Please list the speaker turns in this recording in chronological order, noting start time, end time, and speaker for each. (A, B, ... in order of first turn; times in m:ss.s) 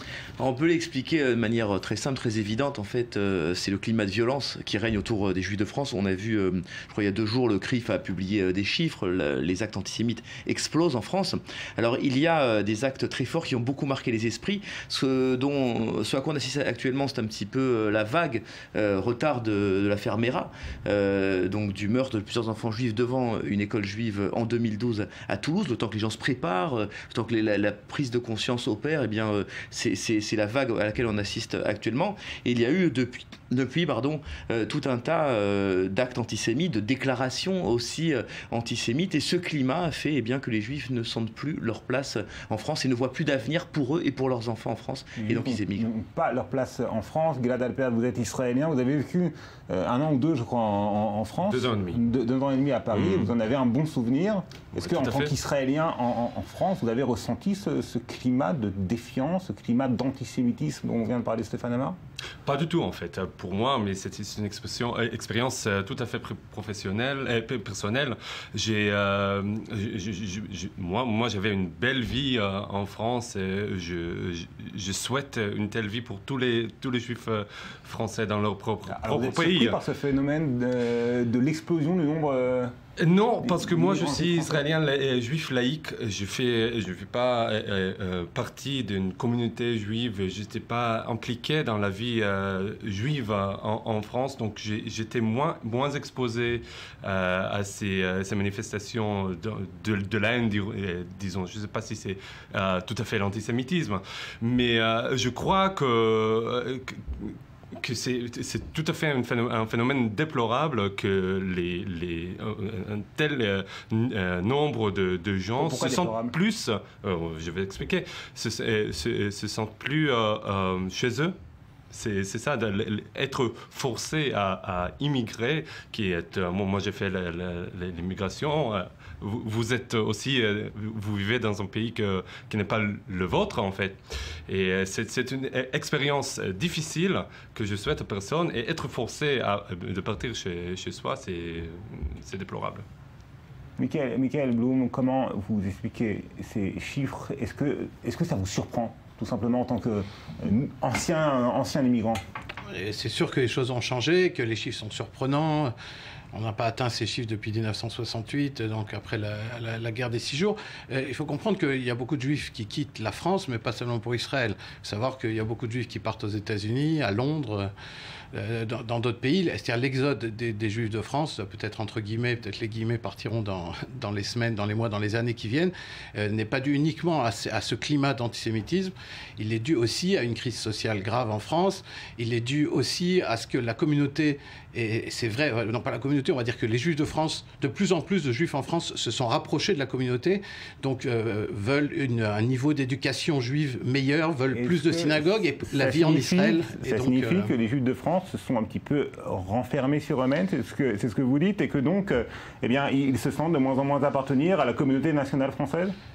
0:00.4-0:45.8 A
0:45.2-1:02.0 B
0:51.5-0:52.0 C
0:52.9-0:53.3 C
0:54.8-0:55.3 C
1:02.4-1:19.8 C
1:18.9-1:22.7 B
1:23.0-2:01.3 C
1:23.4-1:24.6 B
1:55.6-1:56.4 B
2:01.9-2:22.8 C
2:23.8-2:32.2 B
2:32.7-2:35.7 D
2:36.3-2:47.7 D
2:48.3-3:17.5 D
3:14.5-3:25.9 B